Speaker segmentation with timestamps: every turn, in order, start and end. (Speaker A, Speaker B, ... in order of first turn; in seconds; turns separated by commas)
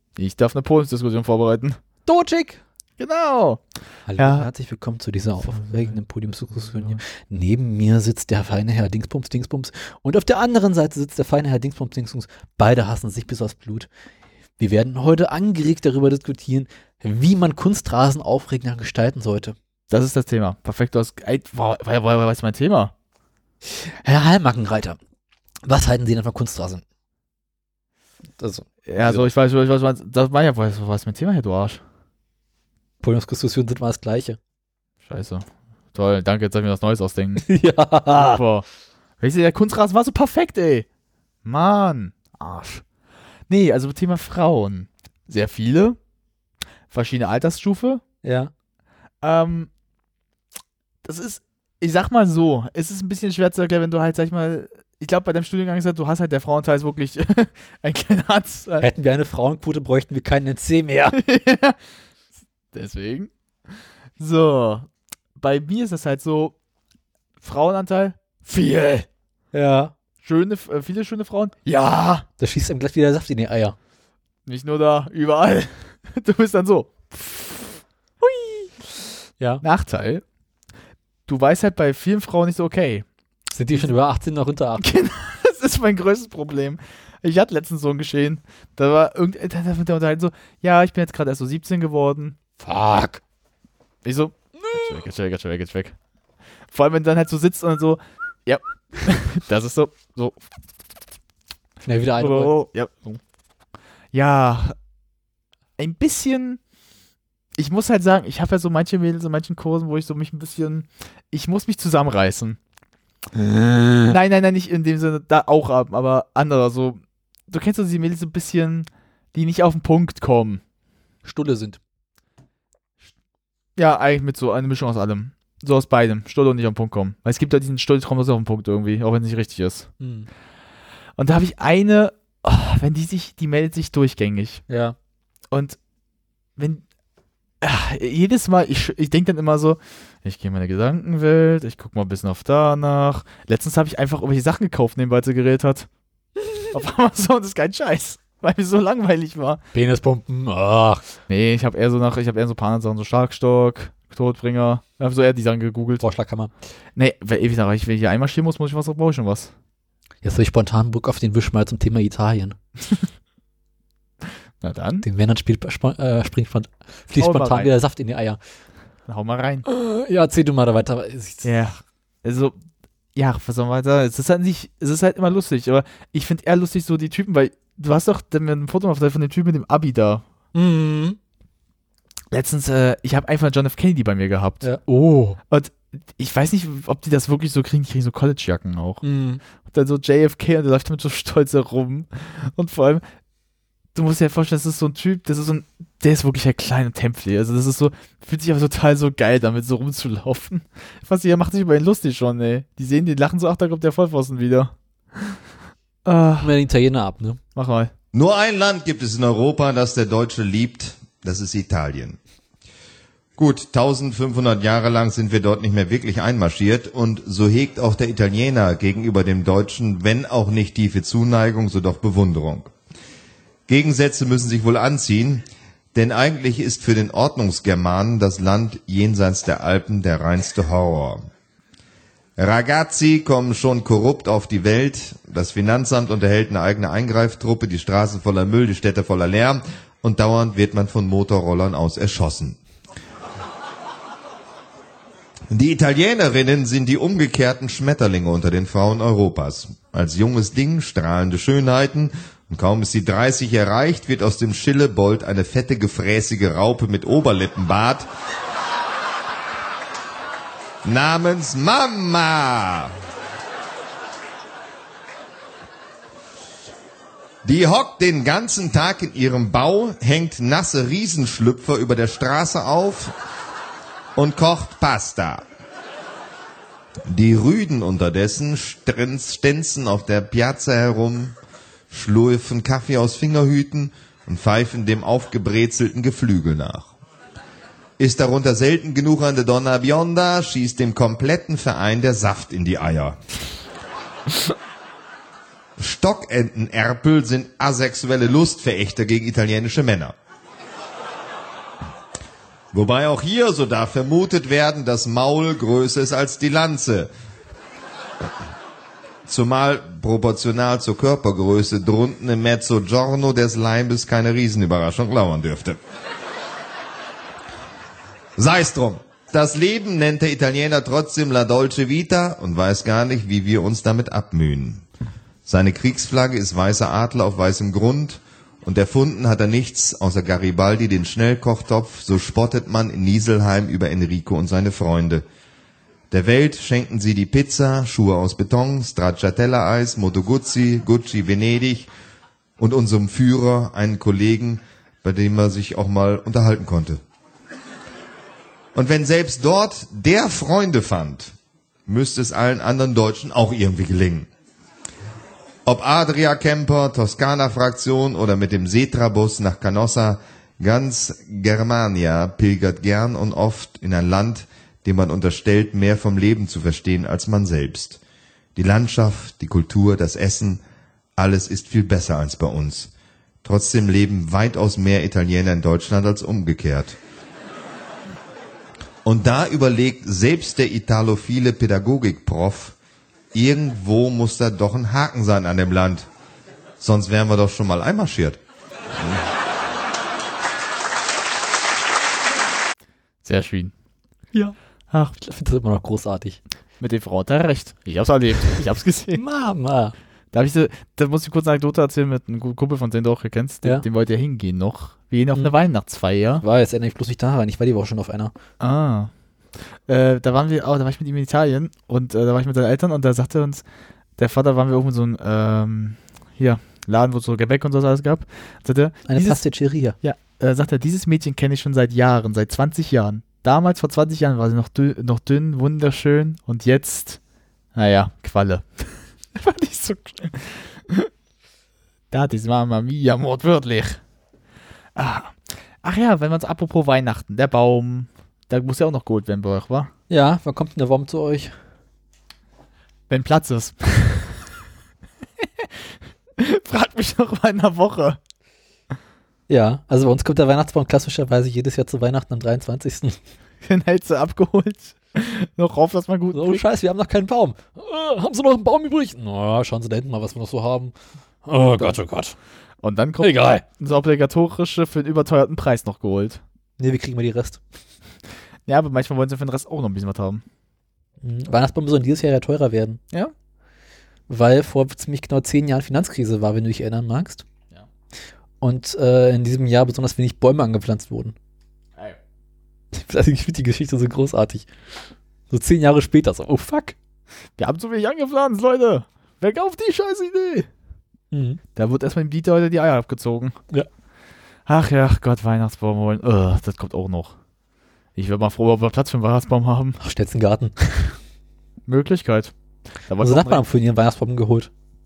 Speaker A: 0.2-1.8, Speaker B: 2.1-2.6, Speaker A: 3.0-3.6, Speaker B: 4.1-13.9, Speaker A: 4.2-4.5, Speaker A: 5.5-6.0, Speaker A: 6.5-7.0, Speaker B: 14.6-19.6, Speaker A: 19.9-22.9, Speaker B: 23.7-25.0, Speaker B: 25.7-26.8, Speaker B: 28.4-29.3, Speaker A: 28.9-31.8, Speaker B: 33.0-34.4, Speaker A: 35.0-37.5, Speaker B: 37.4-38.4, Speaker A: 38.1-38.7, Speaker A: 39.2-40.9, Speaker A: 41.4-42.8, Speaker A: 43.5-46.0, Speaker A: 46.9-48.0, Speaker B: 48.2-48.5, Speaker A: 49.2-49.7, Speaker A: 51.0-58.9, Speaker B: 58.8-61.2, Speaker A: 61.1-61.8, Speaker A: 62.7-63.3, Speaker A: 64.2-66.6, Speaker A: 67.4-69.1, Speaker B: 69.5-69.9, Speaker A: 70.2-72.3, Speaker B: 72.4-73.8, Speaker A: 74.5-78.8, Speaker A: 79.6-80.2, Speaker A: 81.3-83.1, Speaker B: 83.5-84.9, Speaker A: 84.8-92.4, Speaker B: 92.6-93.2, Speaker A: 94.0-96.0, Speaker B: 94.6-95.0, Speaker A: 96.7-100.4, Speaker B: 101.9-102.6, Speaker A: 102.2-103.2, Speaker A: 104.1-104.8, Speaker A: 105.8-106.6, Speaker A: 107.6-112.6, Speaker B: 113.3-114.2, Speaker A: 114.1-120.6, Speaker B: 121.2-121.8, Speaker A: 123.8-129.9, Speaker B: 130.0-130.3, Speaker A: 131.2-134.6, Speaker B: 134.7-135.0, Speaker A: 135.5-135.8, Speaker A: 136.6-136.8, Speaker A: 137.6-145.9, Speaker A: 146.7-149.6, Speaker B: 149.7-151.1, Speaker A: 151.3-156.0, Speaker B: 156.0-156.5, Speaker A: 157.0-159.5, Speaker B: 160.2-162.6, Speaker A: 164.6-165.1, Speaker B: 165.0-168.4, Speaker A: 167.2-167.7, Speaker A: 169.1-169.7, Speaker B: 169.7-171.5, Speaker A: 171.4-172.6, Speaker A: 173.2-180.3, Speaker B: 180.5-181.2, Speaker A: 182.3-184.8, Speaker B: 184.6-185.4, Speaker A: 185.5-189.0, Speaker B: 189.0-189.4, Speaker A: 189.7-193.1, Speaker A: 193.9-205.4, Speaker A: 206.1-206.5, Speaker B: 206.4-207.4, Speaker A: 207.6-207.9, Speaker C: 208.1-212.2, Speaker C: 213.4-222.7, Speaker C: 223.7-231.2, Speaker C: 232.4-242.6, Speaker C: 245.5-258.1, Speaker C: 260.8-262.9, Speaker C: 267.4-273.1, Speaker C: 274.2-275.4, Speaker C: 277.1-281.3, Speaker C: 281.9-286.9, Speaker C: 288.0-293.2, Speaker C: 295.8-300.1, Speaker C: 302.7-307.1, Speaker C: 309.3-315.8, Speaker C: 318.4-324.9, Speaker C: 325.5-335.2, Speaker C: 336.1-341.9, Speaker C: 342.6-347.0, Speaker C: 348.8-351.3, Speaker C: 351.9-354.3, Speaker C: 355.7-368.0, Speaker C: 368.6-370.6, Speaker C: 371.2-372.9, Speaker C: 373.4-377.0, Speaker C: 379.1-382.8, Speaker C: 383.3-386.1, Speaker C: 386.8-388.4, Speaker A: 393.2-393.7, Speaker A: 394.9-395.2, Speaker B: 395.2-396.4, Speaker A: 396.8-399.2, Speaker B: 399.1-399.9, Speaker A: 400.3-406.4, Speaker B: 406.4-408.3, Speaker A: 408.6-409.1, Speaker A: 409.9-413.6, Speaker A: 414.2-419.4, Speaker B: 419.1-420.0, Speaker A: 420.0-427.2, Speaker A: 427.8-431.1, Speaker A: 432.1-434.0, Speaker A: 435.0-439.9, Speaker B: 440.1-441.6, Speaker A: 443.1-444.4, Speaker A: 445.4-445.7, Speaker A: 446.4-448.2, Speaker B: 449.5-453.2, Speaker A: 453.6-456.6, Speaker B: 456.3-462.4, Speaker A: 462.8-466.4, Speaker B: 463.2-463.6, Speaker B: 466.8-467.6, Speaker A: 468.7-470.4, Speaker B: 471.2-473.0, Speaker B: 474.3-477.4, Speaker B: 478.6-481.4, Speaker B: 482.9-484.7, Speaker B: 485.5-487.0, Speaker A: 487.6-490.7, Speaker B: 491.3-491.6, Speaker A: 491.8-493.6, Speaker A: 494.7-497.4, Speaker A: 498.2-500.0, Speaker B: 500.0-500.8, Speaker A: 501.9-502.5, Speaker A: 503.1-503.6, Speaker B: 503.2-504.7